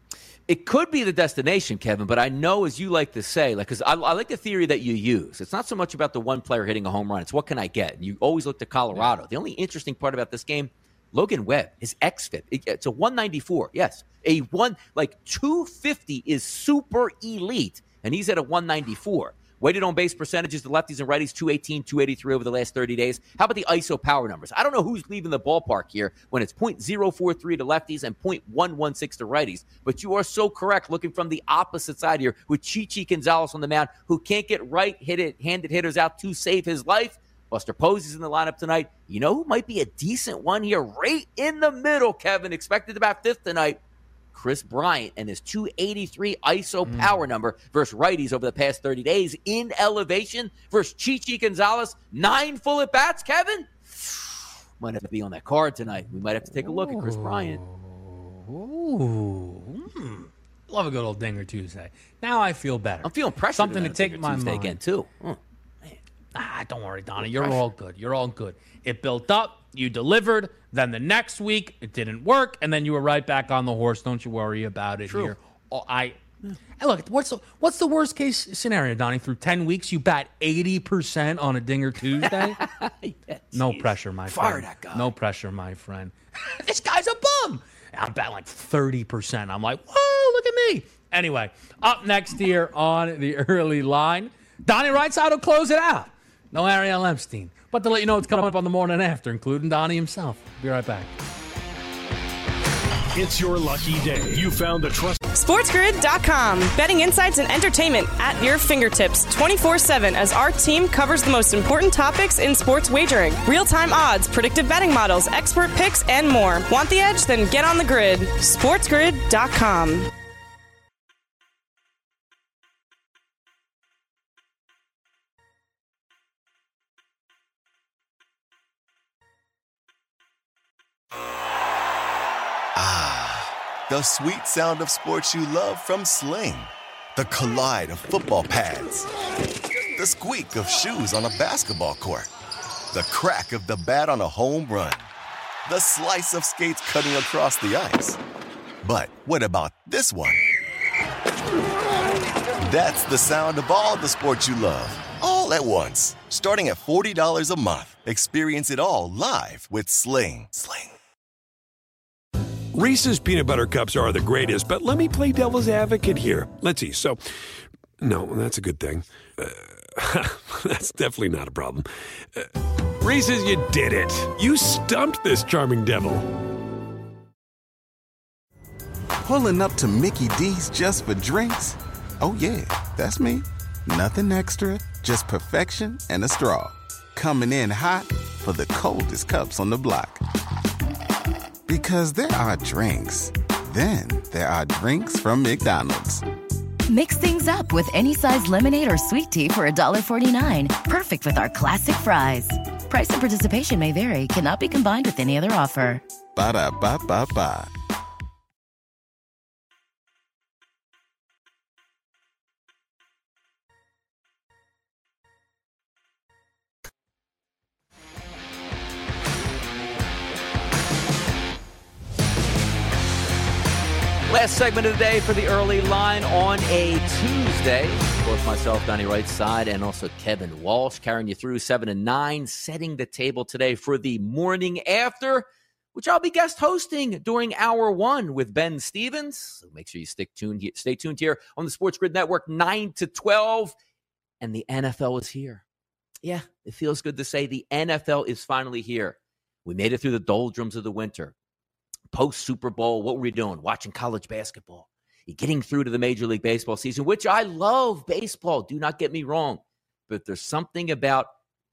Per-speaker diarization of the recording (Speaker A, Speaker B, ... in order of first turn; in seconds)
Speaker A: 0.5-43.8, 44.3-57.6, 63.0-66.0, 67.2-67.6, 75.1-75.3, 82.2-85.1, 224.3-243.7, 244.4-245.6, 246.2-251.3, 252.1-261.3
Speaker B: 46.9-47.2, 56.6-64.8, 66.3-76.2, 76.8-82.6, 83.5-101.1
Speaker C: 103.1-105.2
Speaker D: 105.3-120.1
Speaker E: 132.7-139.1, 139.9-142.3, 142.9-145.1, 145.6-148.2, 148.8-150.5, 152.6-160.9
Speaker F: 162.7-167.2, 168.0-176.2
Speaker G: 179.2-190.2, 191.7-196.2, 206.3-207.7
Speaker H: 196.9-206.0